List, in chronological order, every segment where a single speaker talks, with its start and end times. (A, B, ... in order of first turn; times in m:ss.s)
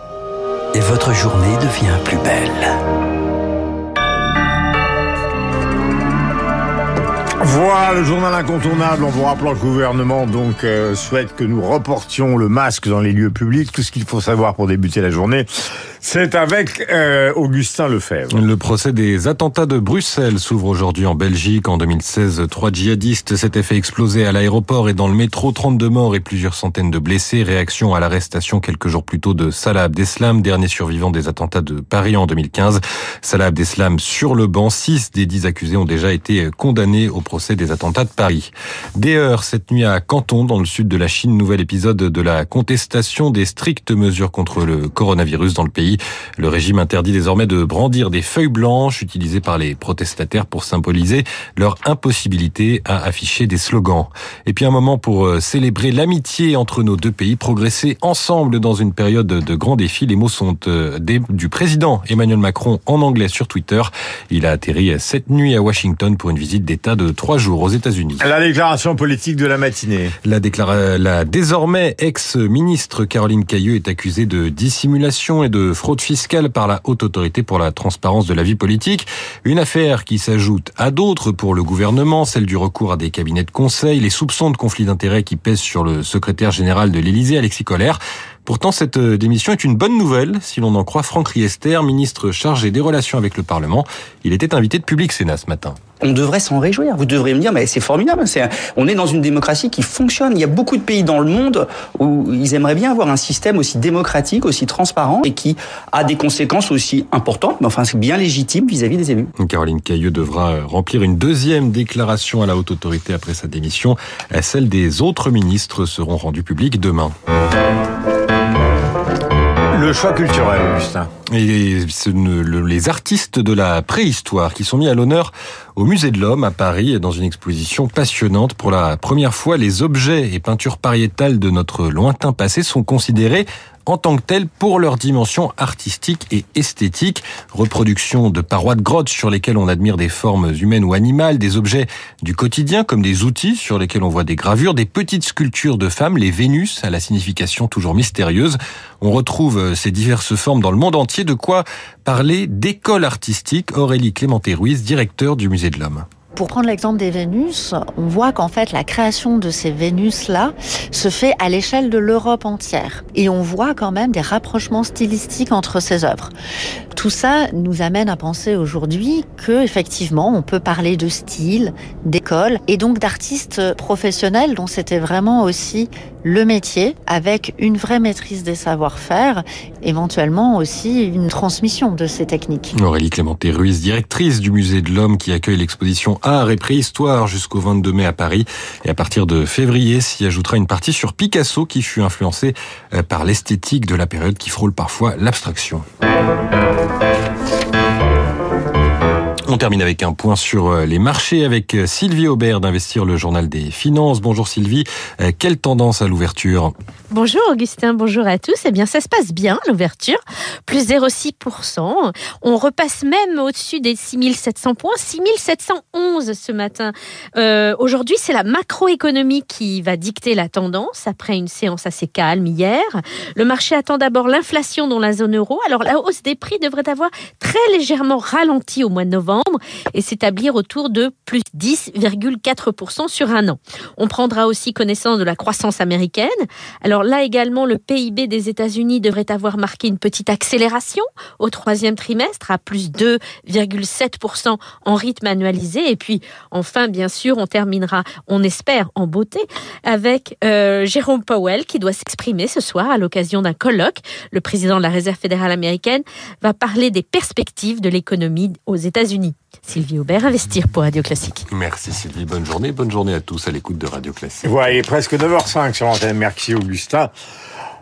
0:00.7-0:02.8 A
0:07.4-0:15.5 B
0:16.0-0:18.4 B
0:18.3-1:08.2 C
1:08.2-1:10.1 B
1:10.2-1:35.8 C
1:36.0-1:49.3 D
1:49.4-1:57.1 C
1:59.7-2:01.1 B
2:01.3-2:36.0 C
2:36.4-2:46.3 E
2:46.9-3:02.7 E
3:02.8-3:15.8 C
3:19.5-3:26.7 C
3:27.1-4:21.4 F
4:21.5-4:24.5 C
4:24.4-4:27.1 B